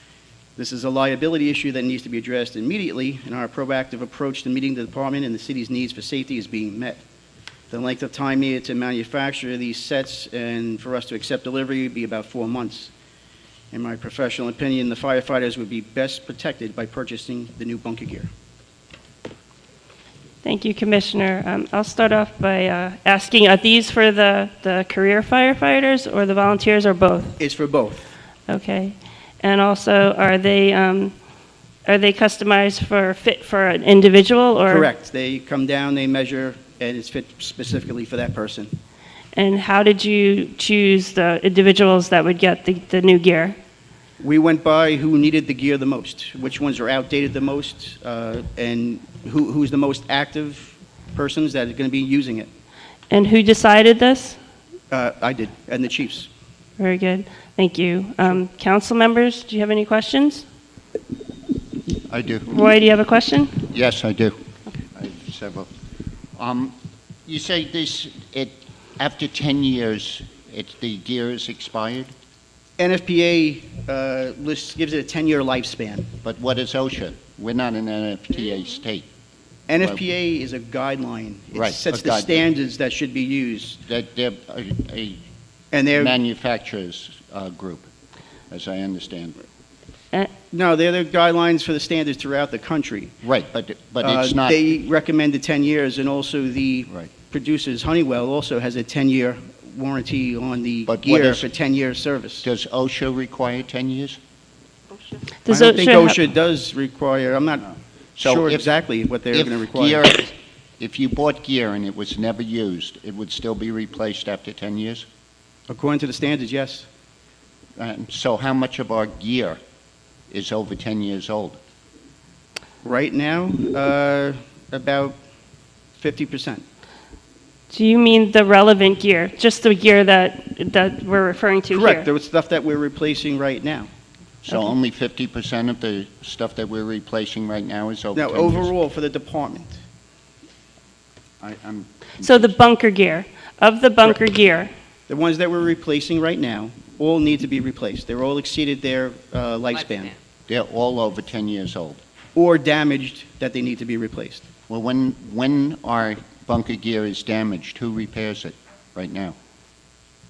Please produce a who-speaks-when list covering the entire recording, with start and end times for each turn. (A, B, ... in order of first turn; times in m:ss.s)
0:00.6-0:07.0 A
0:07.7-0:12.9 A
0:13.7-0:18.3 A
0:20.4-0:27.4 B
0:27.4-0:28.1 A
0:28.5-0:31.2 B
0:31.8-0:34.9 B
0:34.7-0:38.8 A
0:39.4-0:43.6 B
0:44.2-0:52.5 A
0:53.1-0:54.4 B
0:54.9-0:56.3 A
0:56.8-1:00.4 B
1:02.1-1:02.5 C
1:02.5-1:03.6 B
1:03.7-1:04.4 C
1:04.9-1:05.7 C
1:06.4-1:12.1 C
1:12.8-1:16.1 A
1:16.2-1:19.1 C
1:19.7-1:23.8 A
1:21.5-1:22.4 C
1:23.9-1:25.2 C
1:25.7-1:26.2 A
1:25.9-1:27.9 C
1:28.5-1:29.4 C
1:30.5-1:33.2 A
1:33.2-1:34.6 C
1:34.0-1:42.5 A
1:40.9-1:41.5 C
1:42.4-1:44.2 C
1:45.4-1:46.2 B
1:45.5-1:50.3 A
1:48.2-1:48.7 C
1:49.3-1:55.1 C
1:55.7-1:56.9 A
1:57.8-1:59.6 C
2:00.3-2:01.6 C
2:02.8-2:05.2 A
2:06.0-2:06.6 A
2:07.7-2:12.1 B
2:11.7-2:13.9 A
2:14.5-2:18.7 C
2:18.2-2:19.8 A
2:21.4-2:22.6 C
2:22.2-2:24.7 B
2:25.1-2:30.2 A
2:30.5-2:32.0 C
2:32.4-2:34.5 A
2:34.7-2:39.4 C